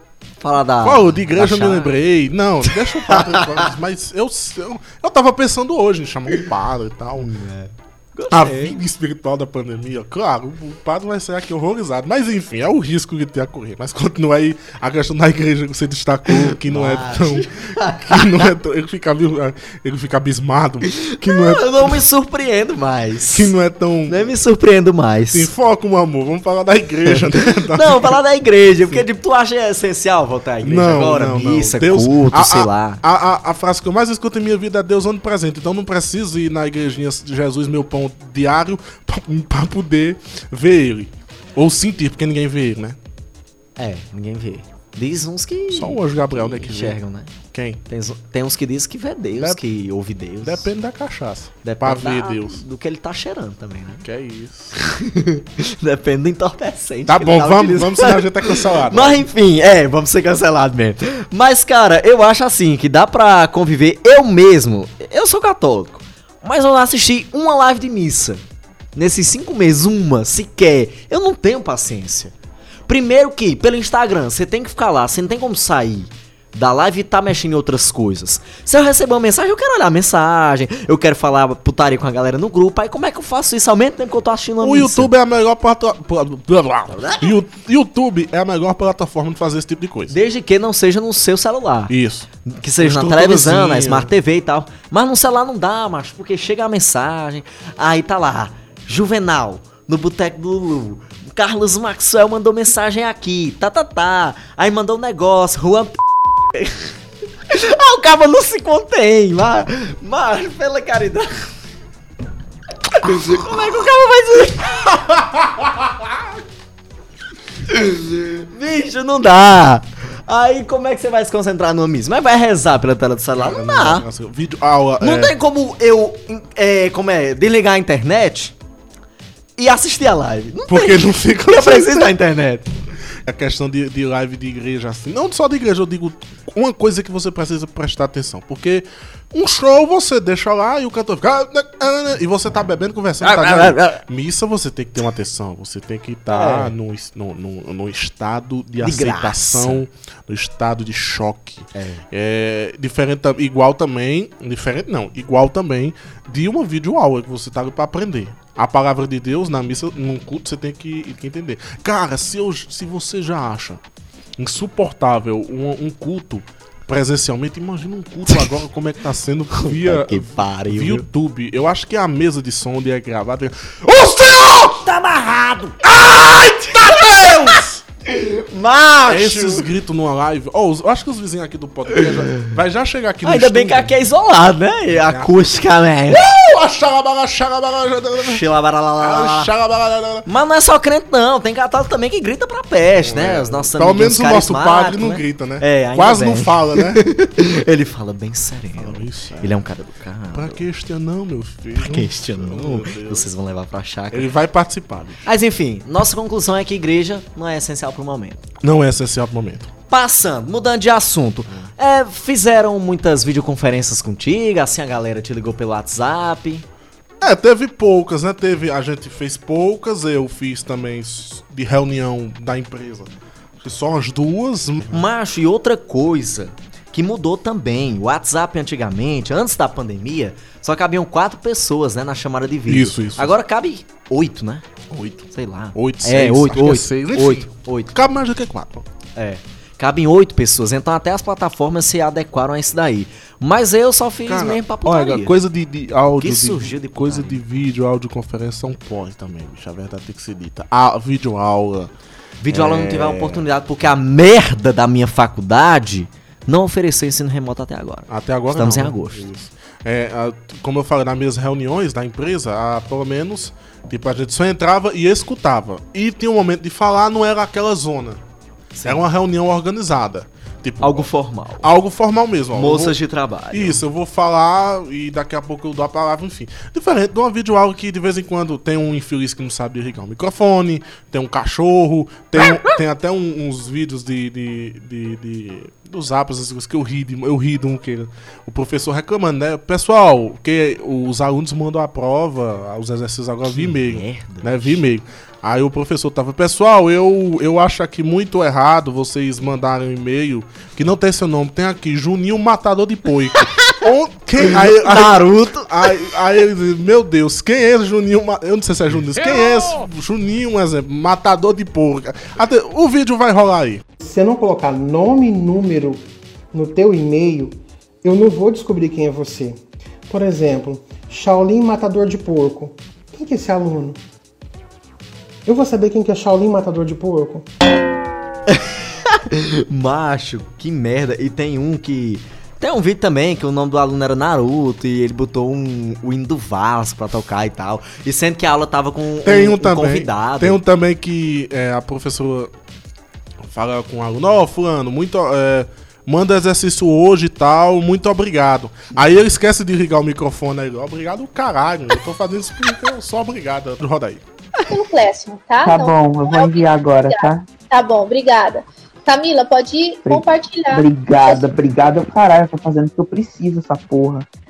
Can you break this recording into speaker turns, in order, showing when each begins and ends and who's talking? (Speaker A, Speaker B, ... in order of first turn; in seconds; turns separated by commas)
Speaker A: 0.4-1.9, Speaker B: 0.8-7.3, Speaker A: 2.6-3.7, Speaker A: 7.2-8.8, Speaker B: 8.3-22.0, Speaker A: 16.3-18.5, Speaker A: 20.9-23.5, Speaker B: 23.3-24.3, Speaker A: 24.1-25.5, Speaker B: 25.3-28.2, Speaker A: 27.1-33.0, Speaker B: 30.6-43.0, Speaker A: 43.8-47.3, Speaker B: 45.7-47.0, Speaker B: 47.5-47.8, Speaker A: 47.9-50.7, Speaker B: 50.4-52.6, Speaker A: 51.6-54.1, Speaker B: 54.0-54.7, Speaker A: 54.7-68.4, Speaker B: 57.0-59.2, Speaker A: 68.9-72.3, Speaker A: 72.9-85.1, Speaker B: 84.6-90.2, Speaker A: 86.9-87.4, Speaker A: 90.1-91.9, Speaker B: 91.9-92.3, Speaker A: 92.4-106.0, Speaker B: 92.8-94.1, Speaker A: 106.5-106.9, Speaker A: 107.5-111.5, Speaker A: 112.9-115.7, Speaker A: 117.7-124.0, Speaker B: 123.3-125.3, Speaker A: 125.0-128.5, Speaker A: 129.6-132.7, Speaker B: 130.7-132.2, Speaker B: 133.2-163.8, Speaker A: 143.2-144.0, Speaker A: 146.3-146.7, Speaker A: 148.8-149.8, Speaker A: 151.7-152.0, Speaker B: 164.4-174.8, Speaker A: 168.3-168.5, Speaker A: 169.5-171.1, Speaker A: 174.5-179.7, Speaker B: 175.8-177.8, Speaker B: 179.1-183.9, Speaker A: 181.9-182.5, Speaker A: 183.2-186.2, Speaker B: 184.9-185.3, Speaker B: 186.1-188.4, Speaker A: 188.2-189.5, Speaker B: 189.0-190.3, Speaker A: 190.2-200.6, Speaker B: 193.0-197.0, Speaker B: 198.8-199.6, Speaker B: 200.3-203.3, Speaker A: 201.8-204.3, Speaker B: 204.1-205.2, Speaker A: 205.2-208.4, Speaker B: 208.6-209.7, Speaker A: 209.9-216.7, Speaker B: 217.2-225.1, Speaker A: 224.9-234.6, Speaker B: 232.7-233.4, Speaker B: 234.9-238.8, Speaker A: 235.3-238.0, Speaker A: 239.2-245.3, Speaker B: 244.2-251.9, Speaker A: 246.2-247.4, Speaker A: 252.4-259.2, Speaker B: 252.5-253.4, Speaker B: 258.1-268.2, Speaker A: 268.8-269.1, Speaker B: 268.8-273.0, Speaker A: 270.8-271.7, Speaker A: 272.5-273.8, Speaker B: 273.5-313.8, Speaker A: 293.4-294.8, Speaker A: 303.3-303.8, Speaker A: 304.4-306.1, Speaker C: 314.0-324.0, Speaker C: 325.4-327.5, Speaker A: 328.5-340.6, Speaker B: 339.2-342.5, Speaker B: 343.4-354.2, Speaker D: 354.6-361.4, Speaker E: 355.6-357.5, Speaker E: 360.0-364.3